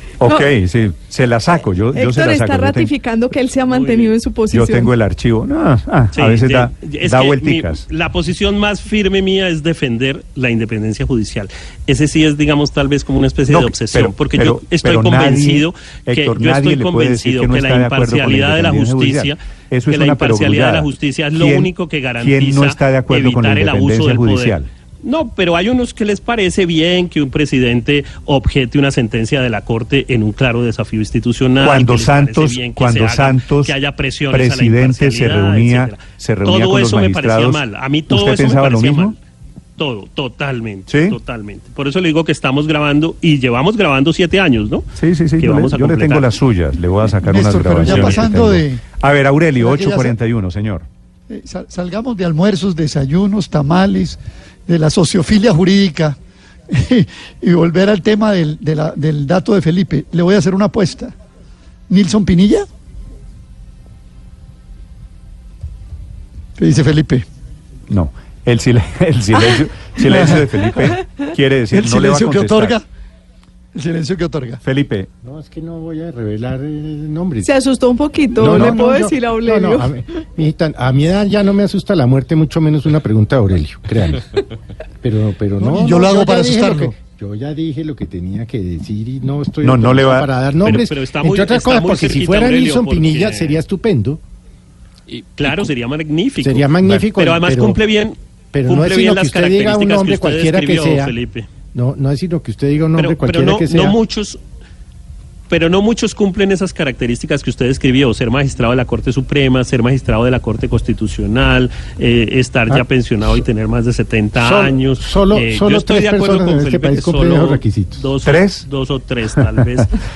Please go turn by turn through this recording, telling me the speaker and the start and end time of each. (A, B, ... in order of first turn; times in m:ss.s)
0:00.2-0:02.9 A
0:00.2-0:00.5 B
0:01.9-0:04.9 B
0:03.7-0:04.1 C
0:04.5-0:07.8 A
0:06.1-0:19.4 C
0:13.5-0:24.7 A
0:19.9-0:39.2 C
0:31.6-0:33.8 A
0:34.3-0:39.1 A
0:39.8-0:44.8 C
0:40.9-0:41.2 A
0:45.0-0:50.8 A
0:45.4-0:46.4 C
0:47.2-0:48.8 D
0:49.6-0:50.1 D
0:51.3-0:56.2 D
0:56.7-1:01.1 D
1:01.9-1:02.7 D
1:06.6-1:07.2 D
1:07.9-1:12.8 A
1:10.1-1:10.5 D
1:11.7-1:12.8 D
1:13.7-1:14.6 D
1:14.6-1:15.1 A
1:15.2-1:17.5 E
1:17.4-1:20.0 B
1:18.4-1:24.3 E
1:25.0-1:34.2 E
1:25.6-1:26.9 D
1:29.6-1:30.3 A
1:30.6-1:33.6 C
1:35.1-1:41.5 C
1:35.4-1:35.7 E
1:36.4-1:37.8 E
1:38.5-1:41.1 E
1:41.7-1:44.0 E
1:43.0-1:44.4 C
1:45.5-1:59.9 C
1:54.4-1:58.1 E
1:58.2-1:58.7 A